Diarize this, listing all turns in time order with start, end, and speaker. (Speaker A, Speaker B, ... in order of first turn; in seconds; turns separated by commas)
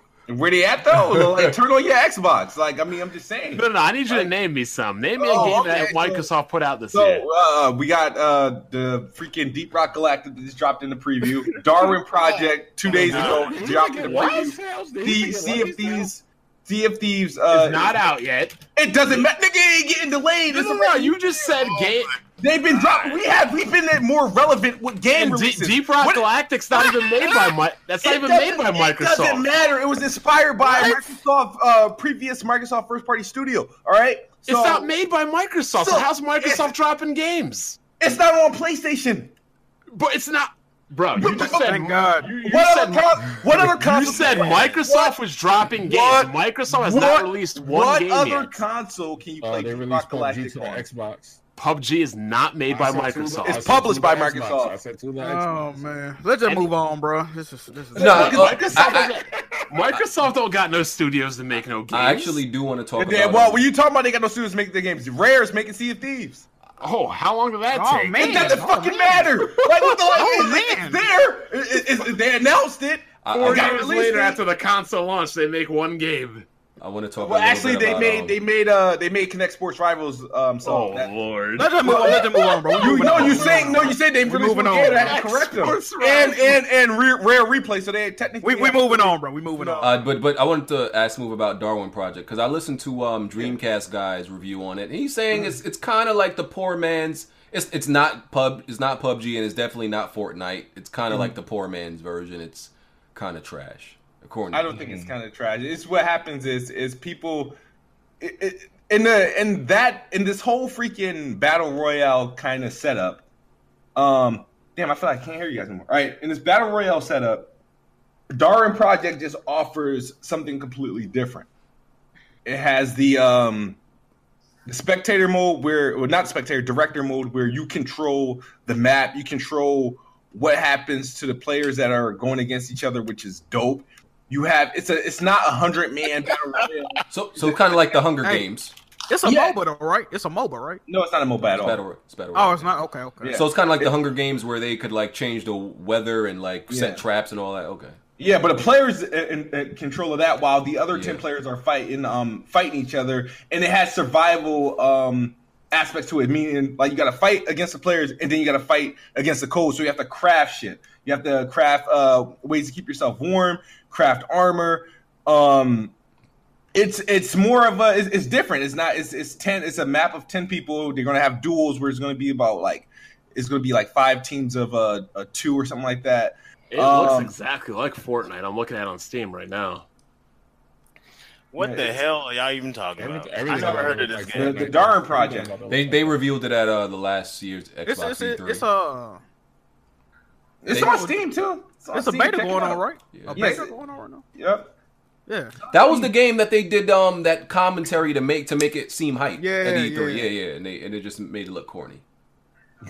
Speaker A: 0.3-4.3, Speaker B: 0.9-1.5, Speaker C: 3.5-7.2, Speaker A: 5.2-6.3, Speaker A: 6.9-18.0, Speaker D: 12.3-13.5, Speaker C: 12.9-14.4, Speaker E: 12.9-16.1, Speaker C: 17.5-19.3, Speaker A: 18.7-21.2, Speaker C: 20.5-22.2, Speaker D: 21.3-23.2, Speaker A: 22.4-34.9, Speaker C: 25.1-29.5, Speaker C: 30.6-31.0, Speaker C: 34.4-37.8, Speaker A: 35.7-36.8, Speaker A: 38.0-39.3, Speaker C: 39.9-48.6, Speaker A: 41.1-45.2, Speaker F: 41.6-42.3, Speaker A: 45.7-50.9, Speaker E: 49.4-51.4, Speaker C: 51.6-53.9, Speaker E: 52.7-56.0, Speaker A: 53.5-54.8, Speaker F: 55.2-58.3, Speaker C: 56.4-56.7, Speaker A: 58.0-59.0, Speaker B: 58.0-59.1, Speaker C: 58.0-62.4, Speaker E: 59.3-59.7, Speaker B: 61.9-63.6, Speaker A: 63.0-66.5, Speaker C: 66.8-68.7, Speaker F: 67.7-71.0, Speaker A: 68.2-74.4, Speaker B: 73.2-73.8, Speaker C: 73.3-76.5, Speaker B: 76.8-78.4, Speaker A: 77.2-81.2, Speaker C: 80.6-82.0, Speaker F: 81.5-85.3, Speaker A: 81.7-90.1, Speaker C: 82.9-83.5, Speaker C: 85.0-86.6, Speaker F: 88.4-90.0, Speaker B: 89.8-104.9, Speaker A: 104.5-107.6, Speaker E: 104.7-105.1, Speaker A: 108.2-113.2, Speaker A: 114.0-117.5, Speaker A: 118.3-121.5, Speaker A: 122.4-123.8, Speaker A: 124.7-137.8, Speaker B: 137.1-138.7, Speaker F: 138.2-138.5, Speaker F: 139.1-140.8, Speaker A: 139.2-139.6, Speaker A: 140.9-141.8, Speaker B: 141.5-148.0, Speaker F: 142.3-143.4, Speaker A: 143.2-144.1, Speaker A: 146.7-147.0, Speaker A: 148.2-165.9, Speaker B: 150.9-151.2, Speaker A: 166.7-177.3, Speaker C: 176.7-179.8, Speaker D: 181.5-184.7, Speaker A: 181.6-182.0, Speaker E: 183.0-186.2, Speaker A: 183.5-185.6, Speaker B: 185.7-188.6, Speaker F: 187.8-189.2, Speaker A: 190.6-193.7, Speaker B: 190.7-191.1, Speaker F: 190.7-191.1, Speaker F: 191.9-194.2, Speaker B: 193.1-193.4, Speaker A: 194.3-194.7, Speaker F: 195.3-196.1, Speaker B: 195.7-202.0, Speaker F: 199.4-200.3